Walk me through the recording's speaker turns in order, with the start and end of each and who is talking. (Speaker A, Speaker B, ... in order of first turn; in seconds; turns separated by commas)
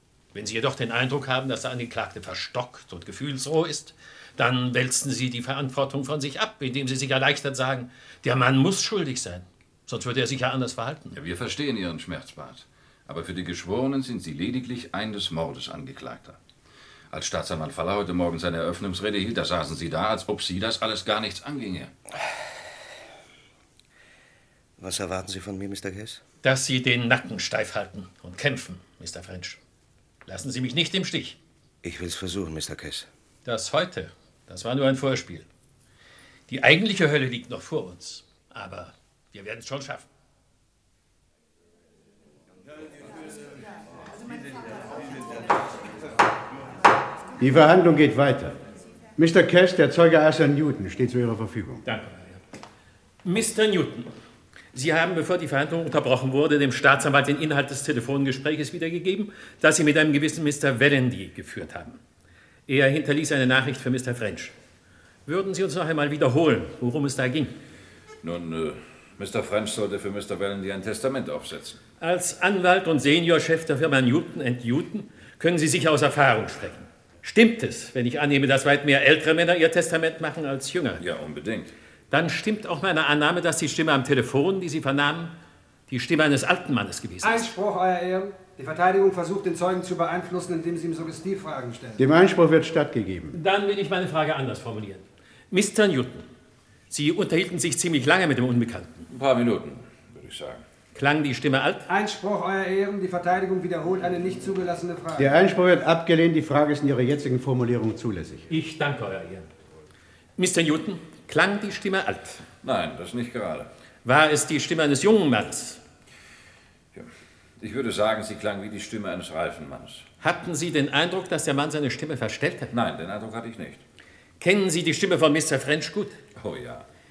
Speaker A: 0.3-11.2, Speaker B: 11.1-16.4, Speaker B: 17.1-21.9, Speaker C: 24.8-26.2, Speaker A: 26.4-29.6, Speaker A: 30.3-31.4, Speaker C: 31.8-33.1, Speaker A: 33.5-35.5, Speaker A: 36.5-40.1, Speaker D: 47.4-48.6, Speaker D: 49.2-51.8, Speaker A: 51.9-52.4, Speaker A: 53.2-54.1, Speaker A: 54.7-62.0, Speaker A: 62.7-64.5, Speaker A: 65.3-67.5, Speaker B: 68.2-71.8, Speaker A: 72.0-81.0, Speaker B: 81.0-81.7, Speaker A: 82.1-85.3, Speaker A: 85.9-87.5, Speaker E: 87.2-92.0, Speaker D: 92.0-93.4, Speaker A: 93.3-96.3, Speaker A: 96.9-99.1, Speaker B: 99.1-100.6, Speaker A: 101.0-101.9, Speaker E: 101.9-105.3, Speaker D: 105.2-108.5, Speaker A: 108.5-109.5, Speaker A: 110.4-112.4, Speaker B: 112.6-113.7, Speaker A: 114.0-115.8, Speaker B: 117.6-120.1, Speaker A: 120.2-122.7, Speaker B: 122.7-123.8, Speaker A: 124.4-126.2, Speaker B: 126.4-126.8